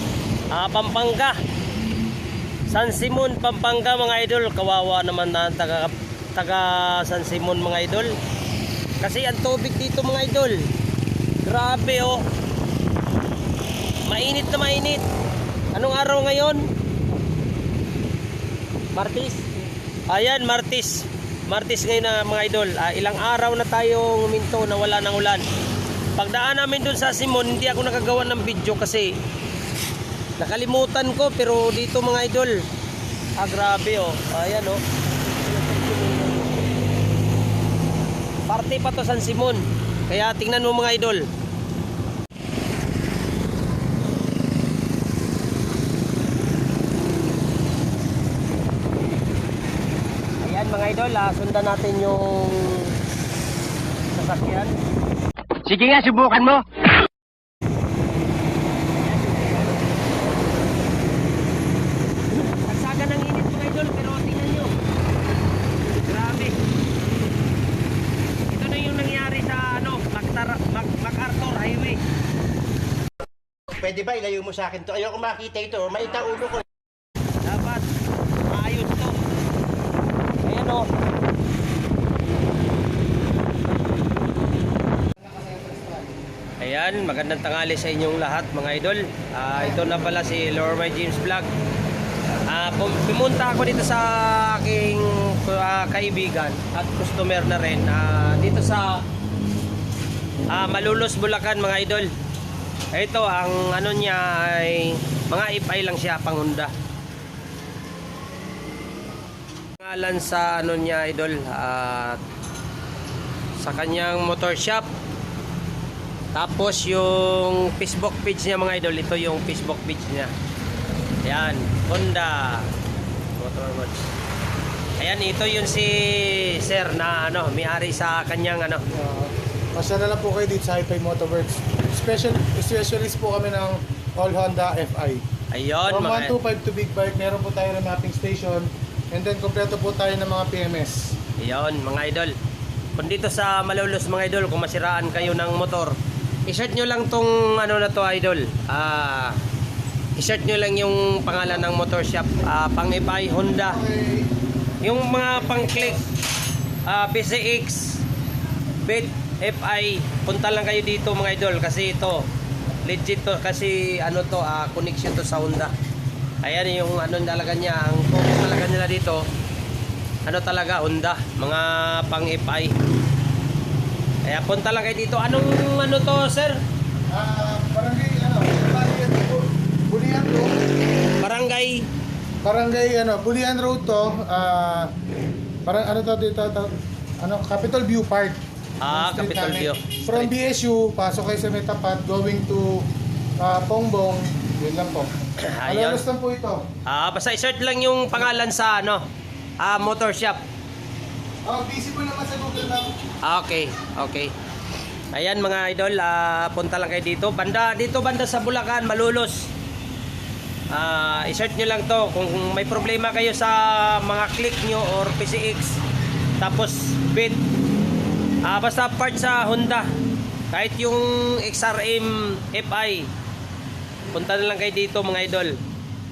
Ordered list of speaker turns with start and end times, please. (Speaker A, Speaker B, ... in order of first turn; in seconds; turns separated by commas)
Speaker A: 0.5-1.4, Speaker A: 2.7-8.1, Speaker A: 9.0-10.6, Speaker A: 11.4-12.2, Speaker A: 14.1-15.0, Speaker A: 15.7-16.6, Speaker A: 18.9-25.4, Speaker A: 26.2-29.1, Speaker A: 30.4-32.6, Speaker A: 33.4-34.8, Speaker A: 35.4-36.4, Speaker A: 38.5-41.3, Speaker A: 50.4-53.0, Speaker A: 54.1-54.7, Speaker A: 55.7-56.6, Speaker B: 55.8-56.2, Speaker A: 59.1-59.8, Speaker A: 62.3-64.7, Speaker A: 66.0-66.6, Speaker A: 68.5-72.0, Speaker B: 73.7-76.6, Speaker A: 77.4-77.9, Speaker A: 78.5-79.2, Speaker A: 80.4-80.9, Speaker C: 85.3-86.0, Speaker A: 86.6-91.5, Speaker A: 92.3-99.0, Speaker A: 100.5-102.1, Speaker A: 102.9-106.7, Speaker A: 109.8-112.2, Speaker A: 113.6-114.9, Speaker A: 116.3-120.3, Speaker A: 121.2-122.7, Speaker A: 123.4-124.0, Speaker A: 125.0-128.8, Speaker C: 128.9-135.2, Speaker A: 135.5-136.3, Speaker C: 135.9-141.1, Speaker A: 141.4-142.3, Speaker A: 143.0-145.9, Speaker A: 146.5-149.4, Speaker A: 150.2-153.8, Speaker C: 153.7-154.3, Speaker A: 154.8-156.0, Speaker C: 155.5-155.9, Speaker A: 156.9-158.0, Speaker A: 158.8-162.2, Speaker A: 162.8-165.7, Speaker A: 166.4-169.2, Speaker A: 170.3-172.7, Speaker A: 174.3-176.6, Speaker C: 177.1-180.5, Speaker A: 181.2-181.8, Speaker C: 182.4-184.9, Speaker C: 185.7-192.8, Speaker A: 188.8-190.3, Speaker C: 193.4-195.1, Speaker A: 195.4-196.0, Speaker C: 195.6-196.6, Speaker A: 196.8-199.0, Speaker A: 199.6-200.4, Speaker C: 201.4-202.9, Speaker A: 203.2-204.3, Speaker A: 205.1-209.5, Speaker A: 210.7-215.8, Speaker A: 216.4-217.4, Speaker A: 218.4-219.9, Speaker A: 220.5-223.1, Speaker A: 224.1-225.6